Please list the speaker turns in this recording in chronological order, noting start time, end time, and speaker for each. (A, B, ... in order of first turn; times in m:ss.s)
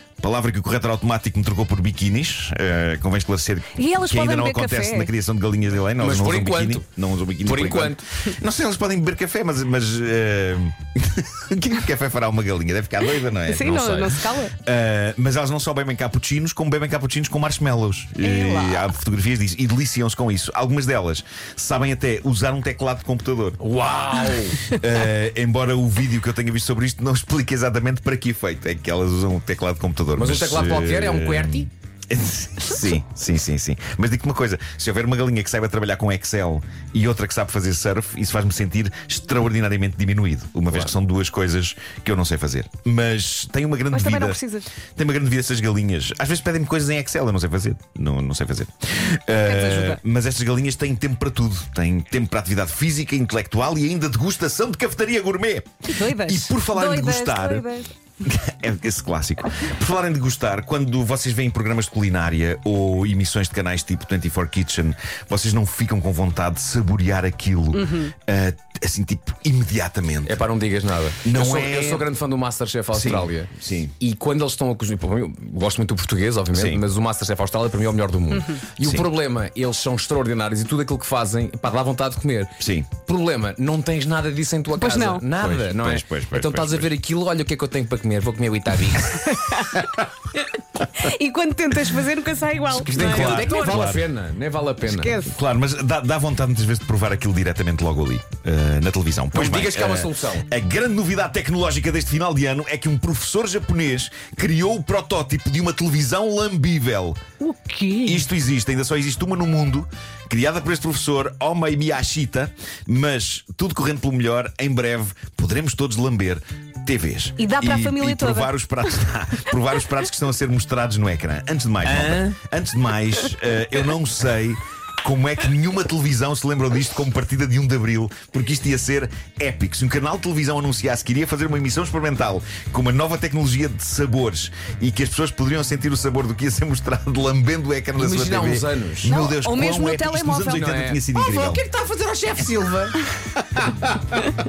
0:00.2-0:23.6 A
0:03.8-0:05.1 B
0:06.0-0:06.8 C
0:07.4-0:08.0 C
0:13.5-0:14.6 B
0:18.2-0:18.9 B
0:23.6-0:24.7 C
0:24.7-0:44.4 A
0:30.2-0:31.7 C
0:43.9-0:44.7 B
0:45.0-0:57.7 A
0:49.4-0:50.0 B
0:55.9-0:57.9 B
0:58.2-1:10.4 A
1:07.7-1:08.1 B
1:10.3-1:29.4 C
1:11.2-1:12.1 A
1:12.9-1:13.9 A
1:16.5-1:16.8 A
1:22.6-1:22.9 A
1:24.8-1:25.2 B
1:25.3-1:26.9 A
1:29.2-1:29.9 B
1:30.9-1:33.8 B
1:32.7-1:35.2 C
1:32.9-1:34.0 A
1:34.8-1:35.4 B
1:35.2-1:47.2 A
1:39.3-1:40.5 C
1:47.4-1:48.2 B
1:48.0-2:21.6 A
1:57.4-1:58.5 B
2:01.8-2:02.4 C
2:18.0-2:19.2 C
2:19.1-2:20.8 B
2:20.5-2:23.0 C
2:23.4-2:23.9 A